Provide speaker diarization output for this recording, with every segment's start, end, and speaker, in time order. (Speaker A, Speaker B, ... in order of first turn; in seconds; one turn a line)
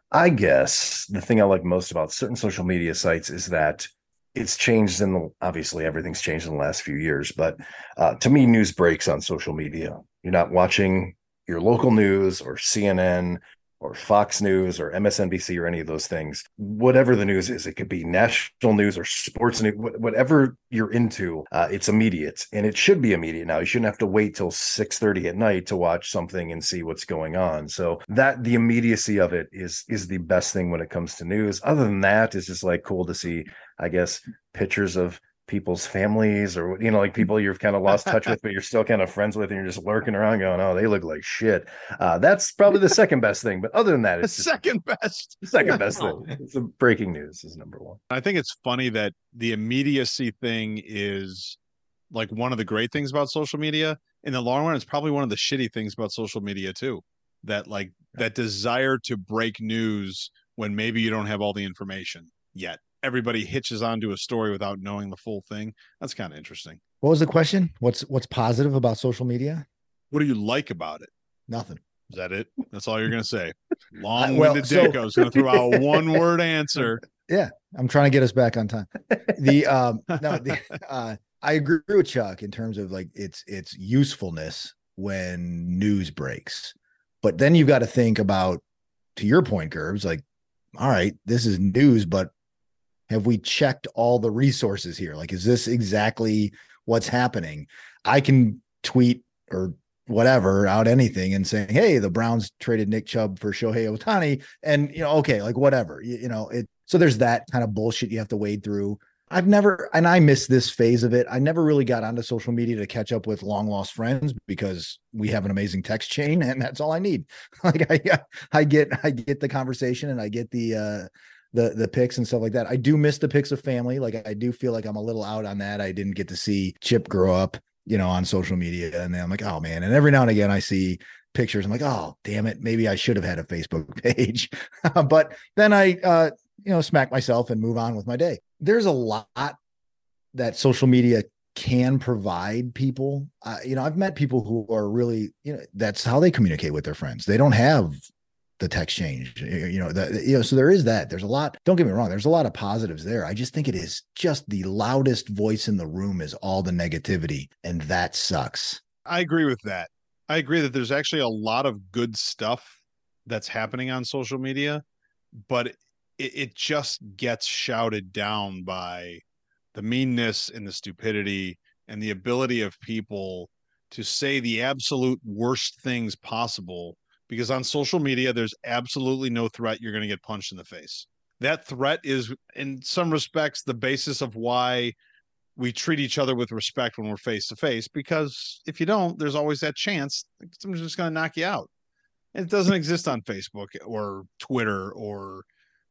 Speaker A: 0.1-44.5
Speaker B: 44.2-46.1
Speaker A: 45.4-48.0
Speaker B: 48.1-51.6
Speaker B: 52.1-66.8
Speaker C: 67.0-69.7
Speaker B: 70.1-71.1
Speaker C: 71.5-71.8
Speaker B: 72.1-77.0
Speaker C: 74.2-76.1
Speaker C: 77.3-88.6
Speaker C: 89.2-90.2
Speaker C: 90.7-92.3
Speaker C: 93.1-139.6
Speaker C: 140.3-148.0
Speaker C: 148.6-158.8
Speaker B: 159.1-164.8
Speaker B: 165.4-169.2
Speaker B: 169.7-184.9
Speaker B: 185.6-191.7
Speaker B: 192.3-195.4